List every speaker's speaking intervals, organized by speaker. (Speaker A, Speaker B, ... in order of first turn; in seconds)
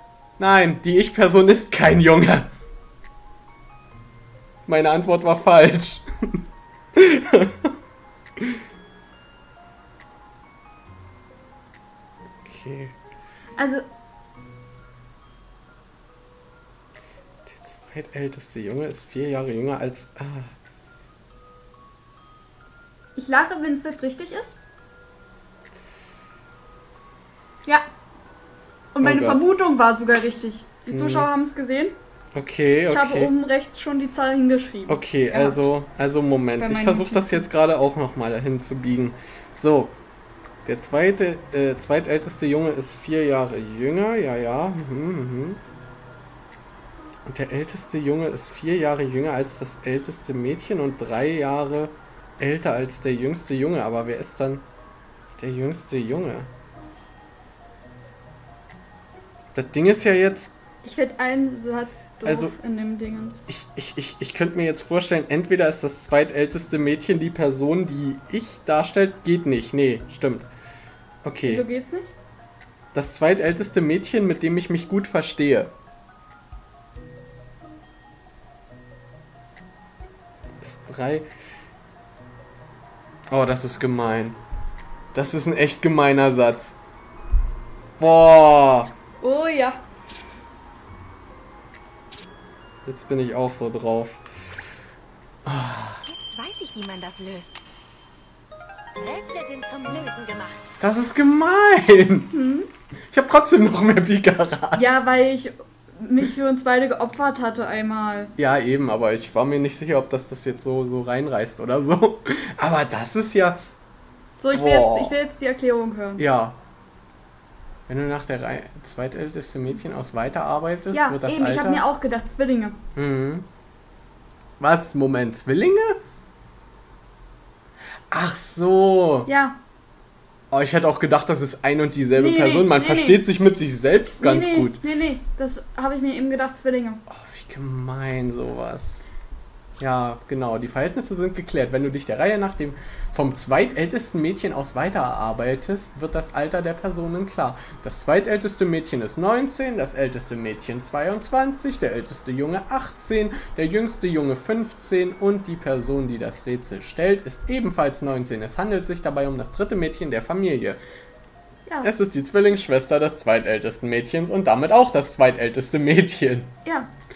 Speaker A: 0.4-2.5, 4.7-6.0, 7.0-7.7, 12.4-12.9, 17.4-20.5, 29.0-29.5, 30.9-31.3, 32.3-33.3, 34.9-39.9, 40.6-45.6, 47.2-54.6, 55.4-56.5, 59.5-60.5, 62.2-62.5, 63.5-70.5, 71.2-71.6, 72.9-75.7, 80.6-81.3, 83.3-84.4, 85.1-86.8, 88.0-88.9, 92.8-94.2, 95.4-96.0, 100.8-102.3, 103.1-104.9, 108.4-113.6, 114.5-115.2, 116.2-116.6, 117.9-121.8, 123.0-123.5, 124.6-126.0, 128.1-129.3, 130.5-134.8, 137.1-139.1, 139.8-160.8, 161.8-166.5
Speaker B: 13.6-13.8, 23.1-24.6, 28.9-31.9, 32.9-35.6, 36.6-37.5, 60.8-63.5, 71.5-72.1, 89.2-89.8, 102.3-102.7, 104.7-108.3, 114.4-116.2, 120.9-122.8, 129.3-129.6, 132.1-133.2, 134.2-137.0, 166.6-166.9
Speaker C: 96.0-97.6, 99.0-100.6